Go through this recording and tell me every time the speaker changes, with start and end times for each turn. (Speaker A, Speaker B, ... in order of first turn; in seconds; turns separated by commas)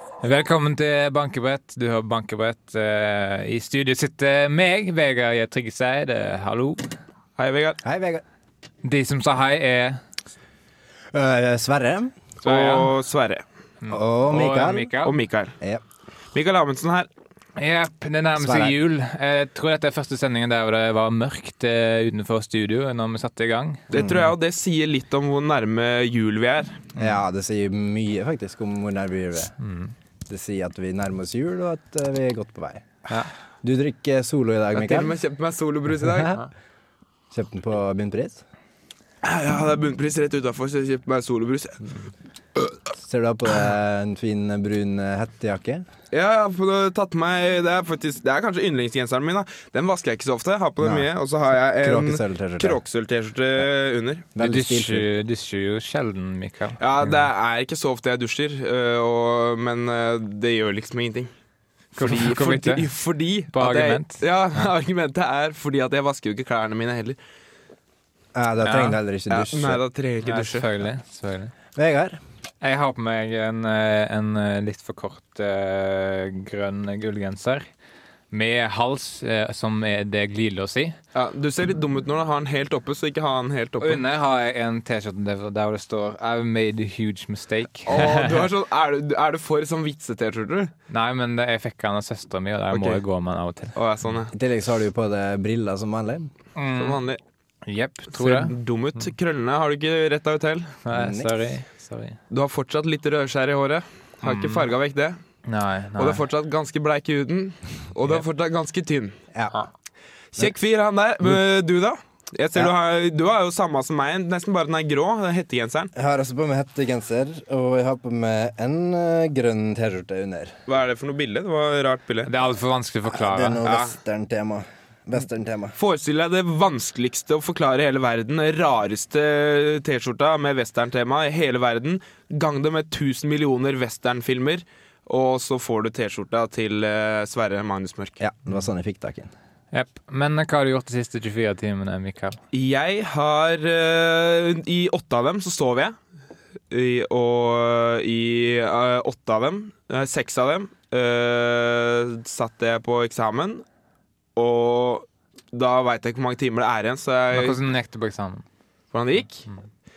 Speaker A: 0.2-6.9, Speaker B: 7.4-7.8, Speaker C: 7.8-8.2, Speaker A: 8.8-10.0, Speaker C: 11.1-12.2, Speaker A: 12.4-12.9, Speaker B: 12.4-13.4, Speaker A: 13.9-15.2, Speaker C: 13.9-14.9, Speaker B: 15.0-15.6, Speaker B: 16.3-17.1, Speaker A: 17.6-24.0, Speaker C: 18.4-18.8, Speaker B: 23.9-26.8, Speaker C: 23.9-24.2, Speaker C: 27.0-29.5, Speaker A: 29.6-29.9, Speaker C: 30.3-32.9, Speaker C: 33.6-35.1, Speaker B: 34.7-36.4, Speaker C: 36.0-36.4, Speaker C: 37.3-38.4, Speaker B: 39.2-41.8, Speaker C: 43.0-45.8, Speaker B: 46.1-54.3, Speaker C: 50.8-51.1, Speaker C: 51.8-52.8, Speaker C: 54.3-55.1, Speaker A: 54.4-57.1, Speaker B: 56.8-61.3, Speaker A: 62.0-62.9, Speaker B: 62.0-67.2, Speaker A: 63.5-64.7, Speaker C: 68.3-69.8, Speaker A: 68.6-69.0, Speaker B: 69.3-70.7, Speaker A: 70.2-71.5, Speaker C: 71.8-72.2, Speaker A: 72.6-77.7, Speaker A: 78.3-81.0, Speaker B: 81.1-84.0, Speaker A: 83.8-88.5, Speaker B: 87.9-90.7, Speaker A: 90.9-93.8, Speaker B: 92.7-93.0, Speaker B: 93.8-94.3, Speaker C: 94.3-96.3, Speaker A: 96.6-97.0, Speaker B: 96.8-97.2, Speaker A: 97.7-98.5, Speaker B: 98.1-100.8, Speaker A: 100.9-102.2, Speaker C: 100.9-101.3, Speaker B: 102.3-105.2, Speaker A: 104.2-104.7, Speaker A: 105.5-106.2, Speaker B: 106.0-109.2, Speaker C: 109.3-109.6, Speaker B: 110.3-115.9, Speaker C: 115.9-120.6, Speaker B: 120.7-122.3, Speaker A: 122.2-123.6, Speaker C: 123.1-125.8, Speaker B: 123.7-123.9, Speaker B: 125.8-138.2, Speaker C: 138.2-139.3, Speaker A: 139.7-142.4, Speaker B: 142.5-145.9, Speaker B: 146.7-153.7, Speaker B: 154.4-157.6, Speaker A: 157.3-158.4, Speaker B: 158.9-159.4